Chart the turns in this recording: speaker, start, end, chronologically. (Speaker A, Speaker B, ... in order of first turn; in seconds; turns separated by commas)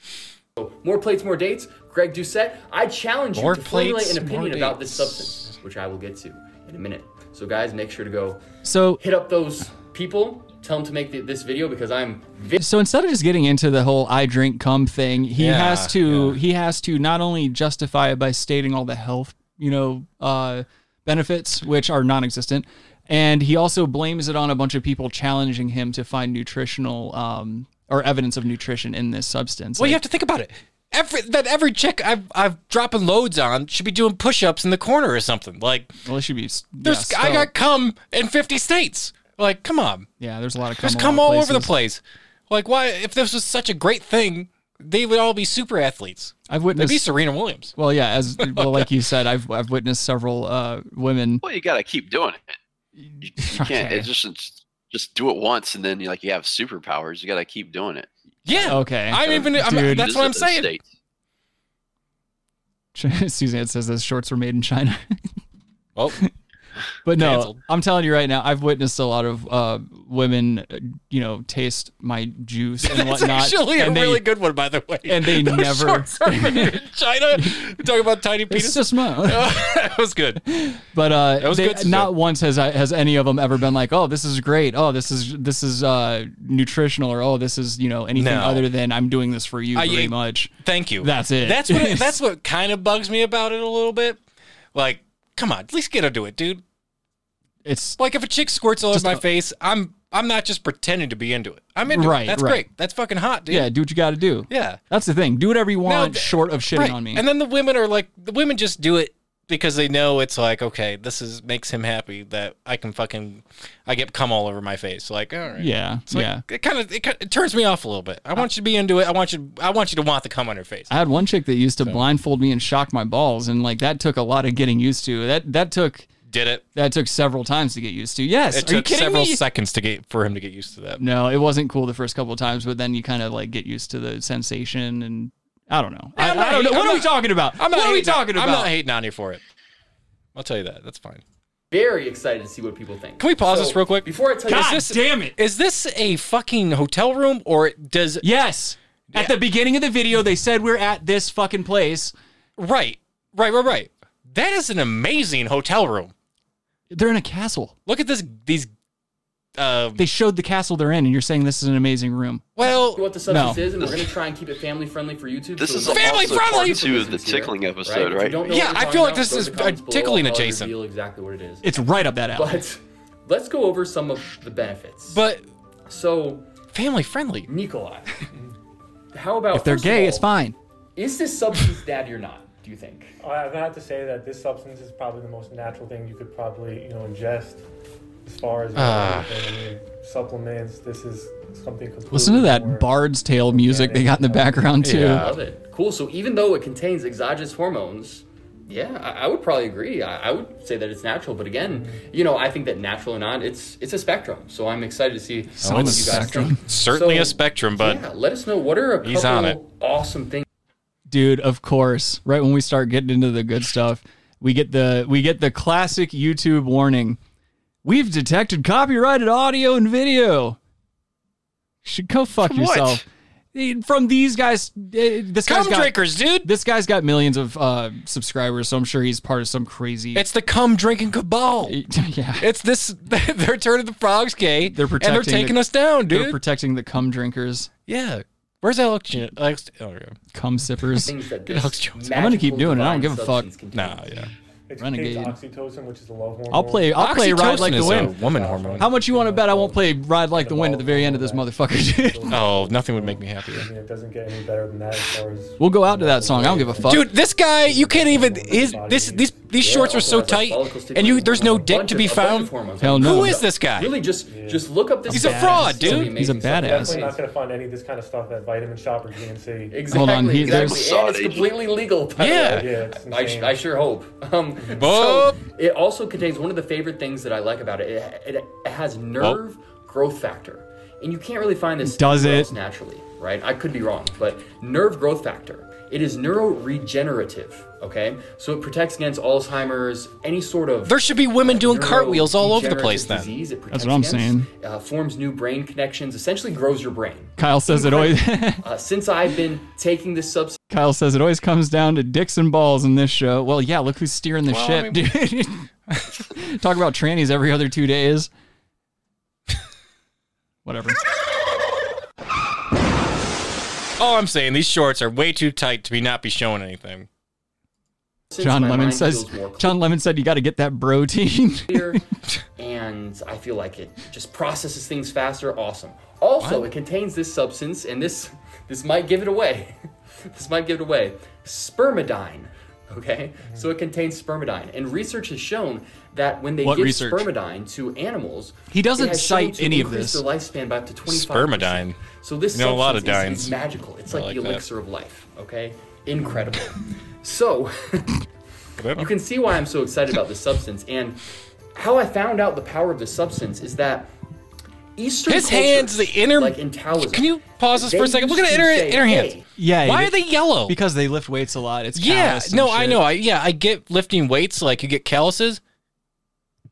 Speaker A: 0.6-8.4, Speaker B: 3.3-5.5, Speaker C: 8.6-9.0, Speaker A: 9.0-12.6, Speaker C: 12.6-30.0, Speaker B: 15.4-16.4, Speaker B: 29.8-35.9, Speaker C: 36.0-37.5, Speaker B: 36.8-40.1, Speaker C: 40.2-41.8, Speaker B: 40.8-47.8, Speaker C: 46.5-47.0, Speaker C: 47.8-51.4, Speaker B: 48.4-48.9, Speaker D: 51.4-52.5, Speaker C: 53.0-54.1, Speaker D: 53.2-58.1, Speaker B: 58.5-60.7, Speaker C: 58.6-60.1, Speaker D: 59.2-60.8, Speaker C: 63.0-65.2, Speaker B: 66.0-66.2, Speaker C: 67.0-74.3, Speaker B: 67.2-67.6, Speaker B: 72.8-80.4, Speaker C: 75.1-76.8, Speaker C: 78.5-79.5, Speaker C: 80.5-92.2, Speaker B: 81.4-82.1, Speaker B: 88.2-88.7, Speaker B: 89.8-94.2, Speaker B: 94.7-96.6, Speaker C: 97.7-98.0, Speaker B: 98.0-103.7, Speaker C: 98.9-99.2, Speaker C: 101.9-102.7, Speaker C: 103.5-107.2, Speaker B: 104.5-104.8, Speaker B: 105.8-120.9, Speaker C: 115.6-116.4, Speaker C: 120.9-126.1, Speaker B: 126.3-126.6, Speaker C: 126.8-129.4, Speaker B: 128.5-131.0, Speaker C: 131.0-138.7, Speaker B: 136.2-139.4, Speaker B: 140.3-141.2, Speaker A: 141.7-145.0, Speaker B: 143.2-148.2, Speaker C: 144.5-145.3, Speaker C: 148.2-152.1, Speaker B: 149.1-149.4, Speaker B: 152.6-156.1, Speaker C: 156.9-157.7, Speaker B: 157.9-158.7, Speaker B: 159.6-160.0, Speaker C: 160.0-162.5, Speaker B: 162.6-164.0, Speaker A: 162.8-171.7, Speaker C: 163.3-163.7, Speaker D: 165.6-168.5, Speaker B: 165.9-166.8, Speaker B: 168.5-170.7, Speaker C: 171.6-172.6, Speaker A: 172.3-175.2, Speaker B: 175.1-175.4, Speaker A: 175.9-176.5, Speaker B: 176.7-177.5, Speaker A: 177.5-178.2, Speaker A: 179.1-180.3, Speaker C: 179.5-180.6, Speaker A: 181.0-183.2, Speaker E: 183.2-187.6, Speaker E: 188.2-192.9, Speaker B: 188.8-189.3, Speaker C: 192.1-195.2, Speaker E: 193.4-194.8, Speaker B: 194.8-195.4, Speaker A: 195.0-210.4, Speaker E: 201.7-202.0, Speaker C: 205.6-206.6, Speaker B: 205.6-208.1, Speaker B: 209.0-209.6, Speaker C: 211.1-217.2, Speaker C: 217.8-220.6, Speaker C: 221.8-230.3, Speaker B: 222.5-223.0, Speaker B: 225.4-226.5, Speaker B: 230.1-231.8, Speaker C: 231.7-232.5, Speaker B: 232.4-236.4, Speaker C: 234.7-237.7, Speaker B: 237.9-240.2, Speaker C: 240.3-241.1, Speaker A: 241.1-244.3, Speaker B: 241.5-242.0, Speaker C: 242.1-243.5, Speaker B: 243.7-244.3, Speaker E: 244.7-260.2, Speaker C: 244.8-245.4, Speaker C: 246.5-248.2, Speaker B: 247.0-248.9, Speaker C: 248.8-252.4, Speaker B: 252.3-253.7, Speaker C: 255.6-257.1, Speaker B: 256.8-263.9, Speaker A: 259.6-267.2, Speaker C: 262.8-263.3, Speaker E: 264.3-264.7, Speaker B: 265.1-266.1, Speaker C: 265.1-267.1, Speaker E: 266.5-269.8, Speaker A: 269.7-300.6, Speaker C: 269.9-270.8, Speaker D: 270.5-271.6, Speaker B: 272.2-272.7, Speaker E: 272.5-273.6, Speaker B: 274.7-275.4, Speaker C: 281.8-282.5, Speaker B: 290.9-293.3, Speaker C: 293.7-294.5, Speaker C: 297.4-298.6, Speaker C: 300.7-305.7, Speaker B: 304.5-305.1, Speaker C: 306.3-308.3, Speaker C: 310.6-311.0, Speaker B: 314.0-317.1, Speaker A: 318.3-319.8, Speaker C: 318.4-322.0, Speaker A: 321.7-322.0, Speaker A: 322.6-348.2, Speaker B: 326.4-326.7, Speaker E: 333.4-333.7, Speaker C: 336.6-337.3, Speaker C: 338.7-340.2, Speaker B: 341.1-342.0, Speaker B: 342.5-343.5, Speaker B: 344.1-344.6, Speaker B: 348.8-349.1, Speaker A: 349.0-351.2, Speaker A: 351.8-354.1, Speaker A: 355.0-359.5, Speaker B: 355.3-356.6, Speaker B: 357.1-360.8, Speaker C: 359.6-363.0, Speaker B: 361.9-365.6